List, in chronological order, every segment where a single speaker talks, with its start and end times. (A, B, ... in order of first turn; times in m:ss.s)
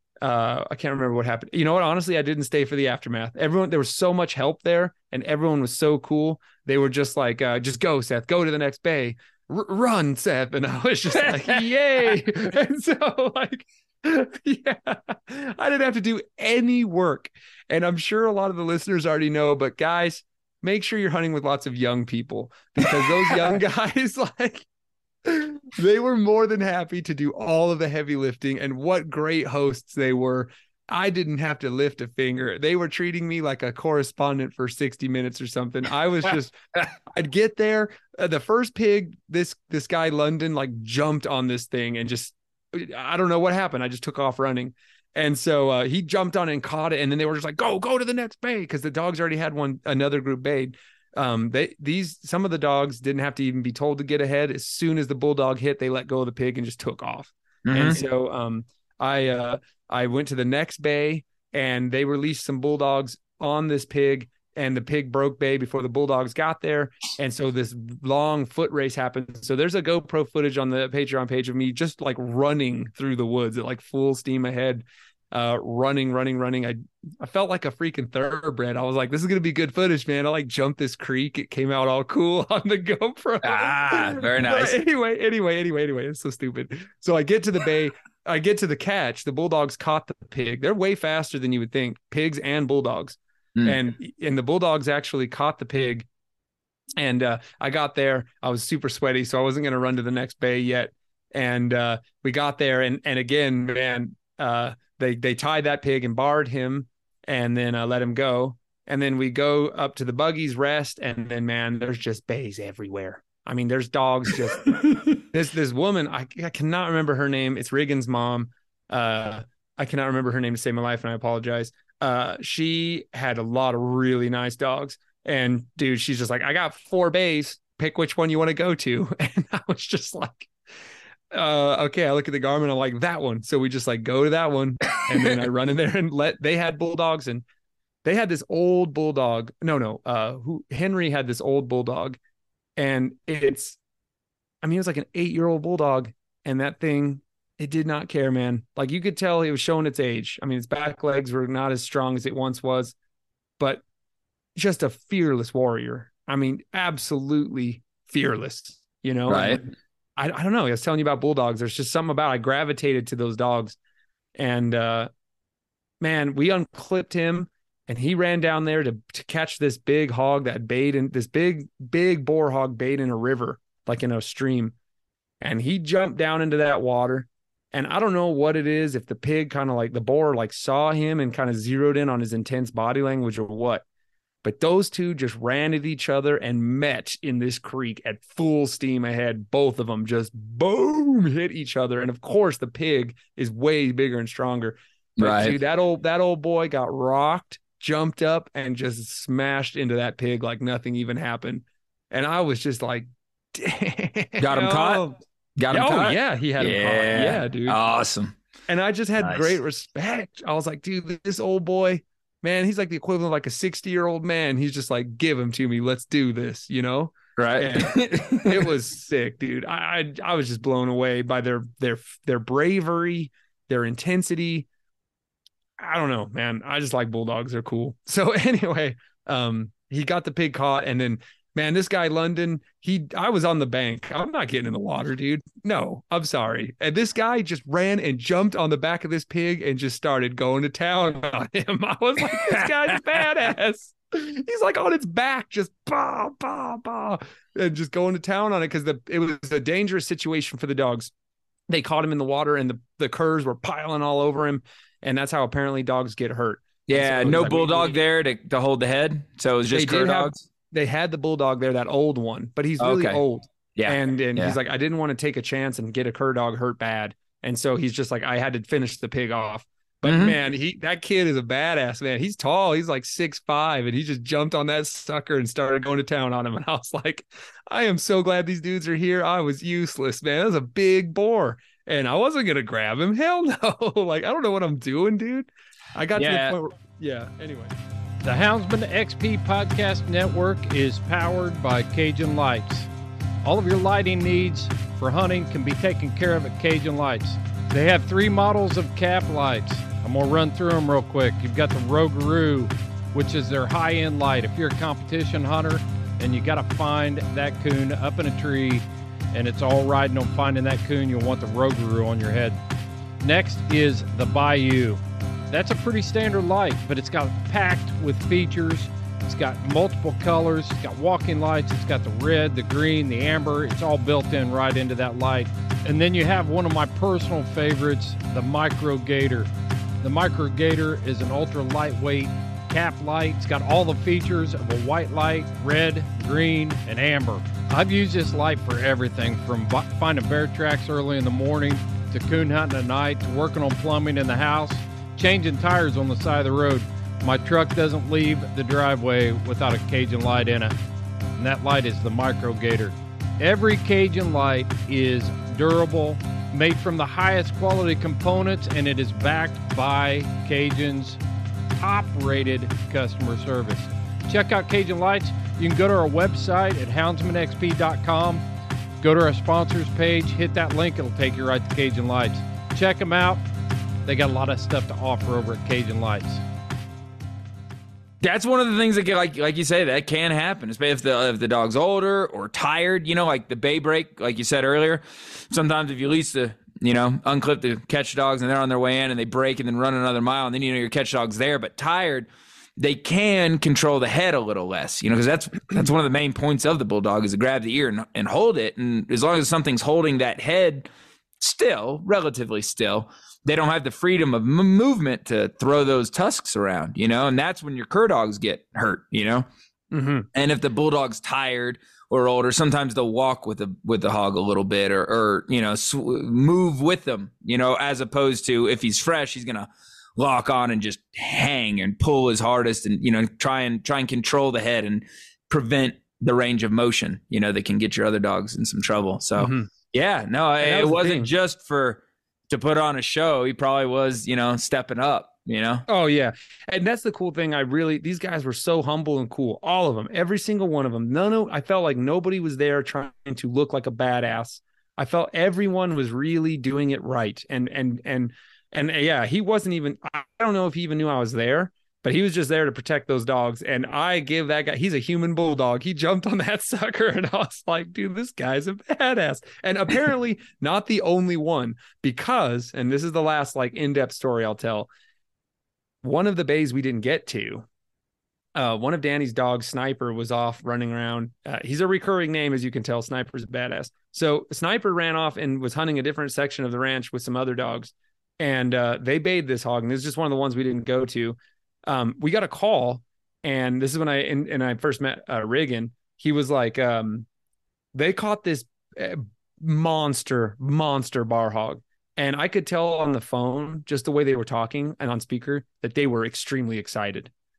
0:00.2-0:24.7 A
0:25.2-1:36.1 A
0:57.6-0:58.0 B
1:23.4-1:24.8 B
1:37.0-2:10.5 A
2:11.3-2:17.4 A
2:18.0-2:22.2 A
2:22.8-2:23.8 A
2:24.6-2:33.0 A
2:34.6-2:39.6 A
2:39.3-2:39.6 B
2:40.2-2:43.8 A
2:44.4-2:45.1 A
2:46.0-2:54.8 A
2:55.4-3:03.8 A
3:04.4-3:25.2 A
3:15.2-3:15.6 B
3:24.4-3:25.0 B
3:25.6-3:28.4 B
3:25.7-3:27.8 A
3:28.7-3:44.7 A
3:29.2-3:29.6 B
3:37.4-3:38.7 B
3:45.8-4:11.1 A
4:02.4-4:02.7 B
4:11.7-4:18.0 A
4:16.9-4:20.4 B
4:19.7-4:47.8 A
4:22.8-4:23.2 B
4:23.8-4:24.6 B
4:30.0-4:30.4 B
4:46.2-4:46.6 B
4:48.2-4:52.9 C
4:53.4-5:12.6 C
5:13.2-5:29.5 C
5:30.0-5:50.8 C
5:51.4-6:01.2 C
6:01.8-6:08.4 C
6:09.0-6:13.4 C
6:14.0-6:16.4 C
6:18.2-6:32.3 B
6:32.8-6:40.9 B
6:41.4-6:49.5 B
6:49.9-6:50.3 A
6:50.3-7:15.9 B
7:09.4-7:09.7 A
7:10.6-7:11.3 A
7:15.9-7:44.9 A
7:46.0-7:47.6 A
7:48.6-8:07.3 A
8:08.0-8:17.3 A